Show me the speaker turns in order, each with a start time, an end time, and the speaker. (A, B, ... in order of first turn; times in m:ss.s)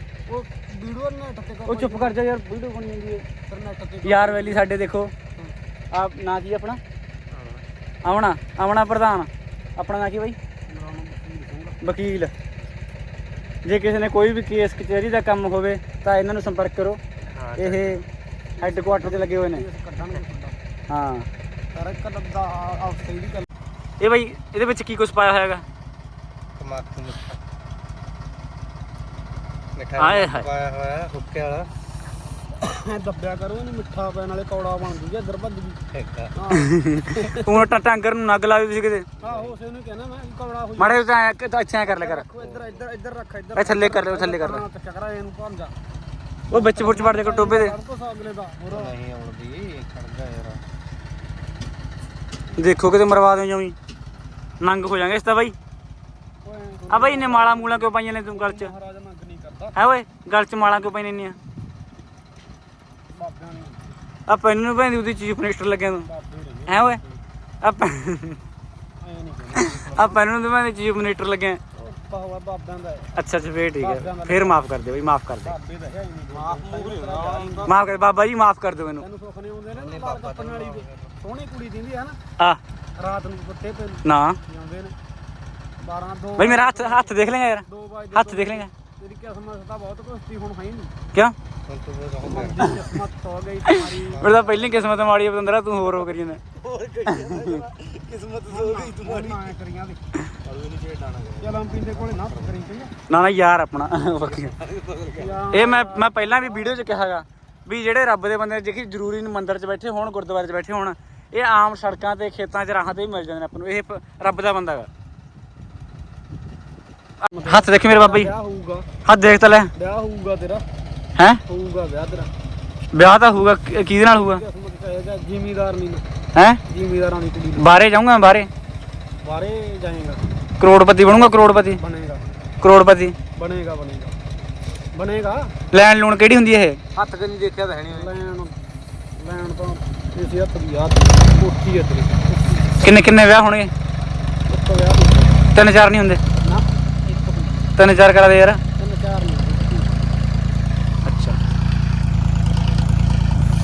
0:00.3-0:02.1 A
0:01.7-0:03.2 B
0:03.5-0:04.6 A
0:04.0-0:05.1 B
0:05.9-0:06.8 B
0:07.3-0:07.6 C
0:08.0-0:10.4 B
0:10.7-0:11.8 A
0:11.8-0:12.3 B
0:13.6-0:17.0 B
0:17.3-0:18.0 C
0:17.6-0:18.0 B
0:18.6-0:20.6 A
0:18.6-0:19.6 B
0:20.9-0:21.3 B
0:21.7-0:23.5 A
0:24.0-0:25.6 B
0:26.6-0:27.4 C
0:29.7-0:31.7 C
0:30.0-0:30.5 B
0:32.6-0:35.8 A
0:35.9-0:36.3 C
0:36.4-0:37.6 A
0:36.5-0:39.0 B
0:39.2-0:41.0 A
0:39.2-0:39.5 C
0:40.8-0:42.2 B
0:41.8-0:45.7 A
0:42.4-0:42.8 C
0:43.6-0:44.6 B
0:46.5-0:47.7 B
0:46.5-0:48.9 A
0:48.7-0:50.6 C
0:52.6-0:53.7 B
0:54.6-0:55.5 B
0:56.4-0:59.7 A
0:56.9-0:58.7 B
0:59.7-1:01.4 B
1:03.1-1:04.0 A
1:04.3-1:06.1 B
1:06.0-1:07.2 A
1:06.7-1:07.0 B
1:07.6-1:08.4 B
1:09.0-1:10.2 A
1:09.6-1:11.6 B
1:11.8-1:13.1 A
1:13.1-1:15.6 B
1:13.8-1:14.6 A
1:15.4-1:17.7 A
1:16.8-1:17.7 C
1:17.6-1:19.0 B
1:19.0-1:22.2 A
1:19.7-1:21.1 C
1:23.0-1:24.9 A
1:24.0-1:24.4 B
1:25.8-1:27.1 A
1:26.4-1:28.7 B
1:27.6-1:30.9 A
1:31.7-1:32.7 C
1:32.2-1:34.5 A
1:34.1-1:34.4 C
1:34.2-1:36.4 B
1:37.0-1:37.6 B
1:38.1-1:39.3 C
1:38.5-1:40.0 A
1:40.5-1:41.4 C
1:41.4-1:42.9 A
1:43.1-1:44.6 B
1:44.9-1:45.2 C
1:45.1-1:46.1 A
1:45.5-1:54.9 B
1:57.2-1:58.3 B
1:57.3-1:58.8 A
1:59.0-1:59.7 B
1:59.8-2:00.6 A
2:01.5-2:02.3 A
2:02.9-2:04.4 B
2:04.1-2:06.0 A
2:06.3-2:06.6 B
2:06.6-2:07.8 A
2:07.6-2:08.5 B
2:09.2-2:10.2 A
2:10.6-2:11.8 B
2:11.6-2:12.2 A
2:12.6-2:13.2 B
2:13.4-2:14.1 A
2:14.9-2:15.5 A
2:15.7-2:16.8 B
2:17.0-2:18.1 C
2:17.9-2:18.5 A
2:19.2-2:22.7 A
2:22.8-2:23.7 B
2:24.5-2:25.4 A
2:25.5-2:26.2 B
2:26.4-2:27.6 A
2:27.8-2:28.6 B
2:28.8-2:30.2 A
2:31.0-2:31.4 B